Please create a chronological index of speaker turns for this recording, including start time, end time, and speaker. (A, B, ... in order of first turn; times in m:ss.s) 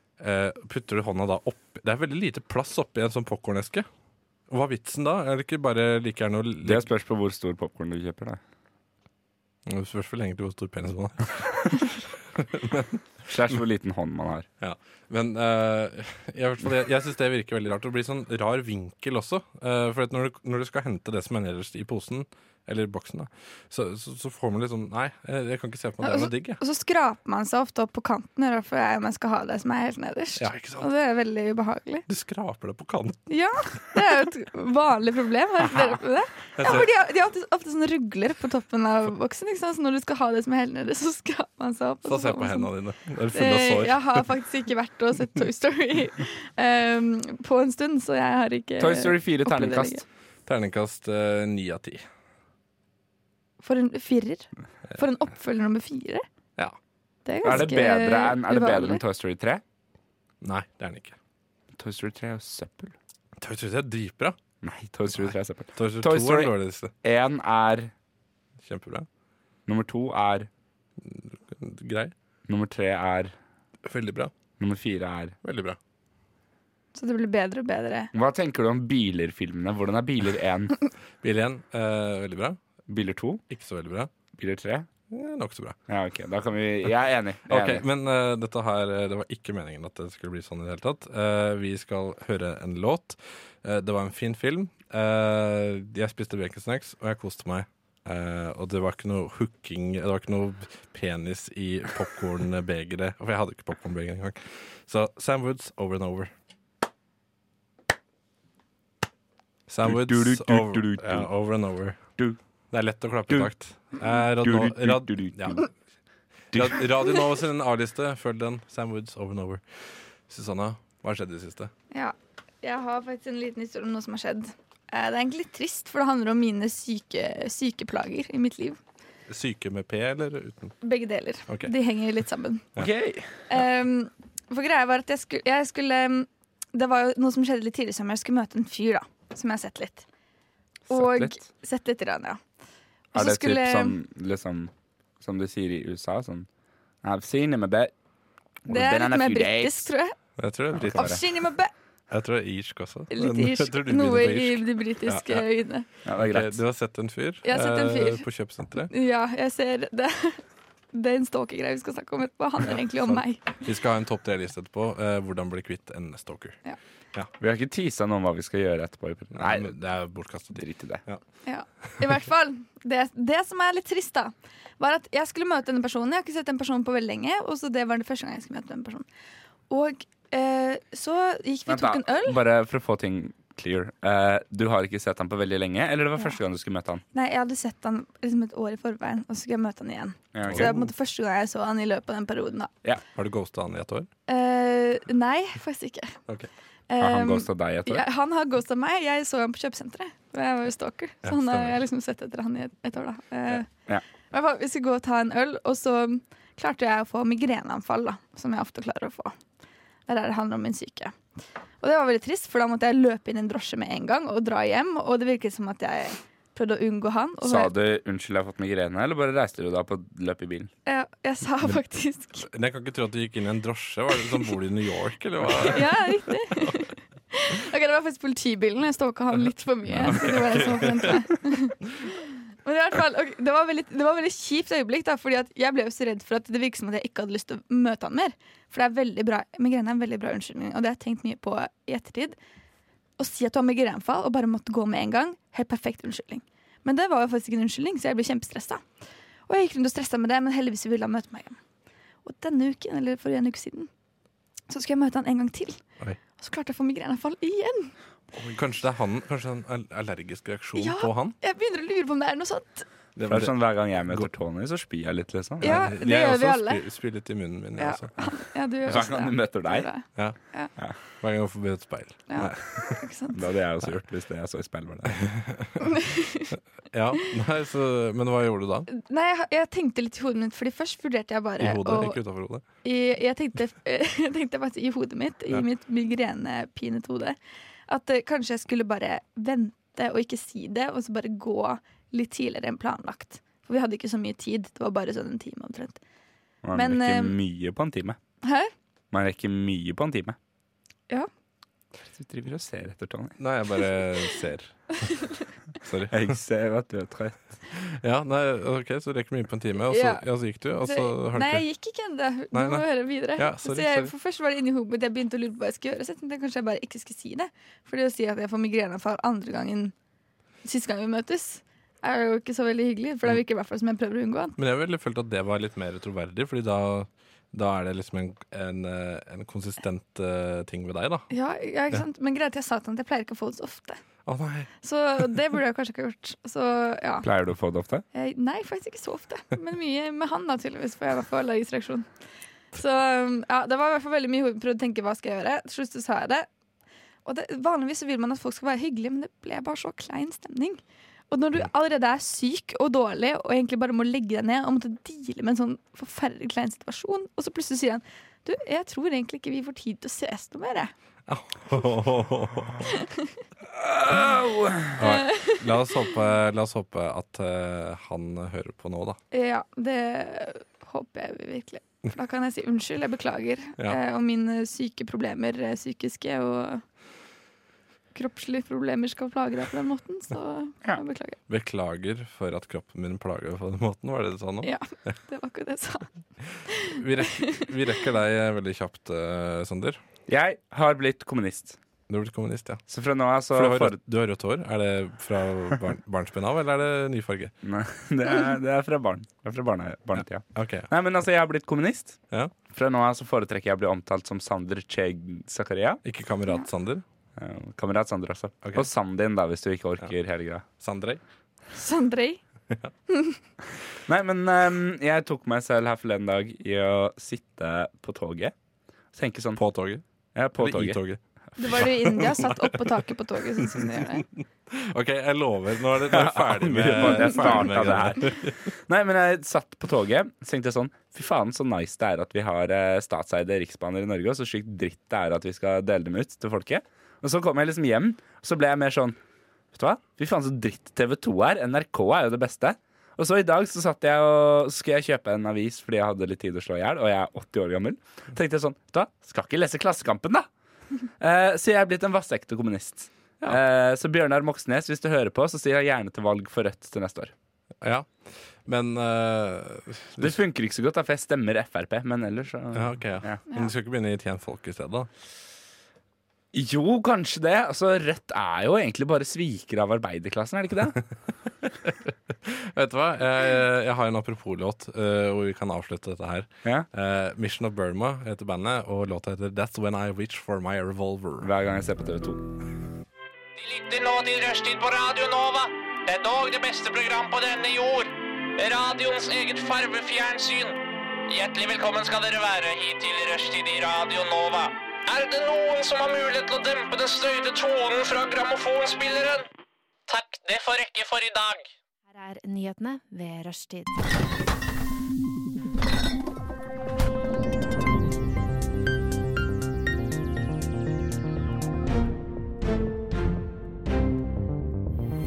0:00.2-0:03.9 A
0:04.5-0:06.9 A
0:06.6-0:08.4 B
0:09.6-0:13.0 A
0:13.2-0:14.5 B
0:14.6-0:26.6 A
0:26.0-0:32.0 C
0:30.4-0:30.9 A
0:32.1-0:33.2 A
0:33.3-0:42.7 C
0:36.6-0:36.9 A
0:42.0-0:44.3 A
0:43.3-0:50.0 C
0:48.8-0:50.0 B
0:50.5-0:52.0 A
0:53.6-0:56.2 C
0:57.2-0:59.0 C
0:57.4-0:59.6 B
1:00.4-1:01.2 A
1:01.7-1:02.9 B
1:03.4-1:04.4 A
1:04.6-1:06.5 B
1:05.1-1:06.9 A
1:07.0-1:07.9 B
1:08.6-1:09.1 A
1:09.7-1:10.5 B
1:11.0-1:12.1 A
1:12.5-1:13.3 B
1:13.8-1:14.3 A
1:14.6-1:15.4 B
1:15.4-1:15.8 A
1:16.9-1:18.1 C
1:18.1-1:20.7 B
1:21.2-1:22.6 A
1:22.9-1:23.4 B
1:23.5-1:24.1 A
1:24.4-1:24.9 B
1:25.1-1:25.8 A
1:25.9-1:27.8 B
1:27.5-1:46.3 A
1:49.7-1:52.0 A
1:49.8-1:51.3 B
1:52.7-1:55.6 A
1:54.4-1:55.6 B
1:56.5-1:59.6 A
1:56.5-1:56.8 B
2:00.3-2:01.7 A
2:01.9-2:08.8 C
2:09.3-2:10.7 A
2:10.8-2:12.6 C
2:12.8-2:13.3 B
2:13.5-2:20.0 C
2:20.9-2:21.3 B
2:20.9-2:22.4 C
2:23.1-2:26.5 B
2:23.1-2:24.0 C
2:27.0-2:27.9 B
2:28.6-2:29.9 B
2:28.7-2:30.1 C
2:30.4-2:31.2 A
2:30.8-2:31.2 B
2:30.9-2:31.7 C
2:32.1-2:35.4 A
2:33.1-2:35.8 C
2:36.0-2:36.6 B
2:36.1-2:38.9 A
2:37.4-2:38.2 C
2:38.9-2:40.4 C
2:40.9-2:43.4 C
2:42.8-2:46.6 A
2:47.4-2:49.7 B
2:49.3-2:51.2 A
2:50.5-2:51.0 B
2:51.4-2:59.0 C
2:59.7-3:02.4 C
3:01.7-3:07.0 B
3:07.1-3:12.7 C
3:10.3-3:10.7 B
3:10.4-3:10.9 A
3:13.1-3:14.1 A
3:14.3-3:16.2 C
3:16.9-3:23.7 C
3:17.0-3:18.0 B
3:21.2-3:21.8 A
3:24.3-3:29.3 C
3:30.1-3:31.1 C
3:31.8-3:37.7 C
3:37.4-3:40.7 B
3:40.8-3:42.5 C
3:42.4-3:46.7 A
3:45.5-4:02.4 C
3:49.9-3:51.2 A
4:03.2-4:08.8 C
4:09.5-4:11.6 C
4:12.2-4:13.9 C
4:14.7-4:15.8 C
4:16.4-4:17.9 C
4:18.5-4:21.4 A
4:20.8-4:22.9 C
4:23.2-4:24.3 A
4:23.3-4:25.7 B
4:25.6-4:26.8 C
4:25.6-4:28.2 A
4:27.8-4:30.7 C
4:28.9-4:29.9 B
4:31.2-4:33.0 A
4:32.3-4:33.4 C
4:33.3-4:35.2 B
4:35.0-4:35.8 A
4:35.8-4:36.5 C
4:36.9-4:38.9 A
4:38.9-4:42.2 C
4:41.6-4:42.6 A
4:42.8-4:47.4 C
4:47.9-4:56.0 C
4:56.6-4:58.2 B
4:56.7-4:57.4 C
4:58.4-4:58.7 C
4:59.1-5:00.4 B
5:02.0-5:03.4 B
5:03.4-5:05.0 A
5:05.8-5:06.2 A
5:06.1-5:07.4 B
5:07.8-5:11.6 A
5:09.9-5:10.2 C
5:10.8-5:19.9 C
5:12.5-5:14.1 A
5:20.6-5:24.6 C
5:24.6-5:31.3 A
5:31.3-5:34.0 C
5:34.2-5:34.7 A
5:34.8-5:37.3 C
5:37.2-5:38.0 B
5:38.1-5:42.1 C
5:42.7-5:46.5 C
5:47.2-6:00.9 C
6:01.3-6:02.9 A
6:02.8-6:03.2 C
6:03.7-6:05.0 B
6:05.0-6:09.2 A
6:05.1-6:05.6 C
6:09.3-6:16.8 C
6:18.1-6:21.4 C
6:21.5-6:24.7 A
6:24.6-6:26.1 C
6:26.7-6:27.7 C
6:26.9-6:30.0 A
6:30.3-6:31.8 B
6:32.1-6:32.8 A
6:32.9-6:34.0 B
6:33.5-6:37.5 A
6:37.6-6:42.2 B
6:40.2-6:40.9 A
6:42.7-6:46.0 B
6:46.0-6:47.0 A
6:47.4-6:50.6 B
6:50.8-6:51.2 A
6:51.7-6:52.4 C
6:53.1-6:53.4 C
6:54.0-6:58.5 B
6:59.1-6:59.6 B
6:59.6-7:00.0 A
7:00.3-7:01.0 B
7:00.6-7:02.9 A
7:01.6-7:04.2 C
7:04.7-7:08.6 A
7:06.1-7:19.2 B
7:19.7-7:30.5 B
7:31.2-7:37.3 B
7:37.8-7:40.4 A
7:40.2-7:43.4 B
7:42.7-7:45.1 A
7:46.5-7:51.0 B
7:51.6-8:01.5 A
8:01.4-8:02.4 B
8:03.5-8:19.4 D
8:20.1-8:21.7 D
8:22.1-8:24.1 E